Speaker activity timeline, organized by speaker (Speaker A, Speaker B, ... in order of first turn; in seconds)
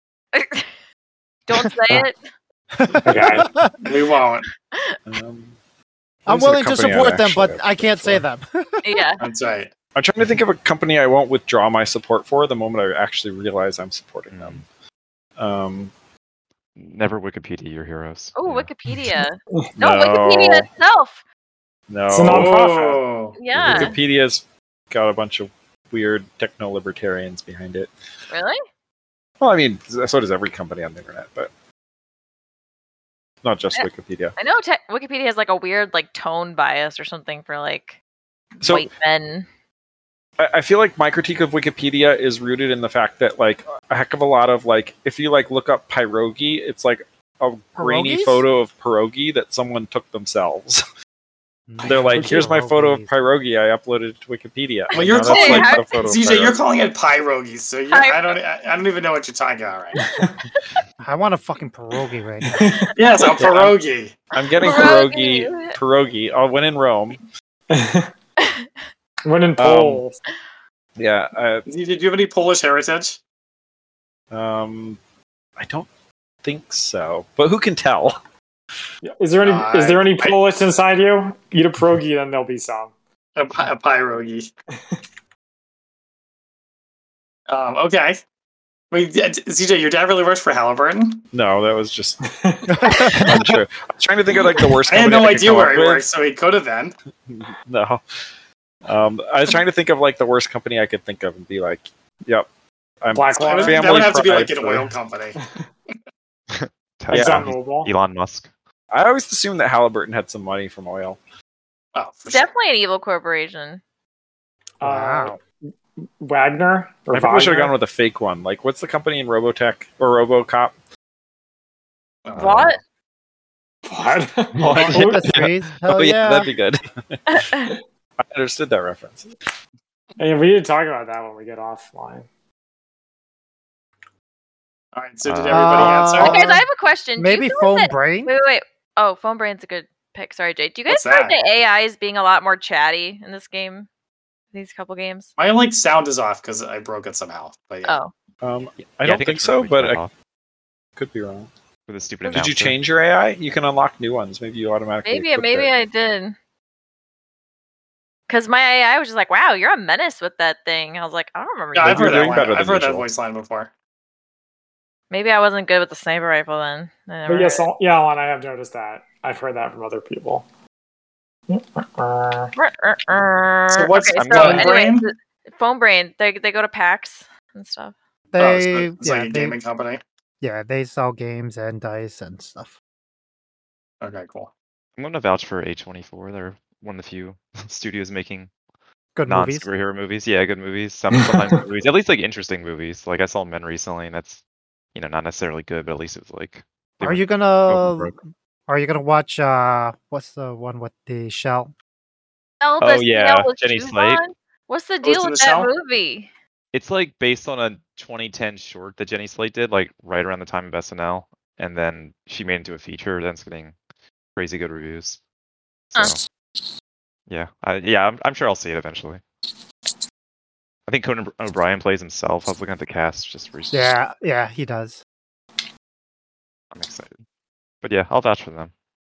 Speaker A: 0.3-0.7, 1.5-2.2, 8.8-9.2, 18.3-21.2, 23.4-23.9, 28.3-28.6, 33.7-38.0, 38.6-39.5, 54.9-55.9, 57.9-58.4, 60.1-60.8, 64.6-65.8, 68.4-68.7, 112.3-113.8, 122.3-122.8, 127.3-127.7, 136.2-143.9, 144.5-145.3, 147.8-148.1, 155.1-156.3, 158.3-162.4, 165.1-167.6, 172.6-177.9, 202.6-206.3
Speaker B: 2.9-3.7, 6.3-9.1, 47.8-48.4, 51.7-53.1, 61.0-62.9, 92.7-93.4, 114.8-115.4, 124.7-126.5, 135.5-136.6, 137.2-138.3, 178.3-179.6, 180.4-182.7, 189.2-189.7, 197.0-198.2, 198.7-201.7, 223.7-225.0
Speaker C: 2.9-3.4, 5.1-5.6, 6.3-8.2, 9.9-14.6, 15.4-15.9, 19.8-20.7, 21.9-22.6, 23.6-27.9, 29.4-31.5, 33.4-34.3, 38.6-38.9, 40.4-50.8, 51.8-56.6, 63.4-63.8, 64.3-67.2, 69.6-70.0, 71.0-71.6, 74.3-75.0, 75.6-75.9, 76.4-78.2, 91.3-92.2, 93.0-96.0, 97.3-98.0, 98.8-102.5, 103.0-104.9, 107.1-107.5, 108.9-111.2, 117.1-120.7, 124.6-125.2, 125.9-127.5, 128.2-129.3, 148.4-150.0, 151.0-151.5, 152.3-155.7, 161.8-163.1
Speaker D: 3.0-3.5, 22.1-23.0, 62.4-63.4, 67.7-68.1, 69.3-70.2, 79.0-82.9, 92.2-92.6, 103.1-104.0, 107.1-107.9, 114.8-115.4, 116.2-117.7, 123.9-125.2, 130.2-132.3, 167.3-170.4, 171.5-172.5, 191.1-191.6
Speaker E: 3.8-4.5, 9.2-9.7, 22.3-23.4, 54.9-60.0, 63.0-64.1, 71.7-73.2, 79.4-80.4, 83.4-84.5, 87.5-88.2, 88.9-91.2, 94.9-96.9, 103.4-105.4, 111.9-112.5, 122.2-122.8, 134.9-136.4, 140.9-141.3, 145.4-147.9, 161.7-163.7, 173.7-175.1, 178.4-180.0, 184.0-184.5, 205.0-205.7
Speaker F: 14.3-14.6, 16.8-18.7, 106.5-108.5, 124.6-125.8, 135.2-136.2, 149.0-150.1, 151.9-152.8, 174.2-174.7, 185.0-188.5, 189.3-194.4, 194.9-198.1, 202.8-204.2, 206.7-213.8, 214.4-215.2, 215.9-216.2, 217.3-219.2, 220.9-223.9, 226.7-227.2, 227.8-228.7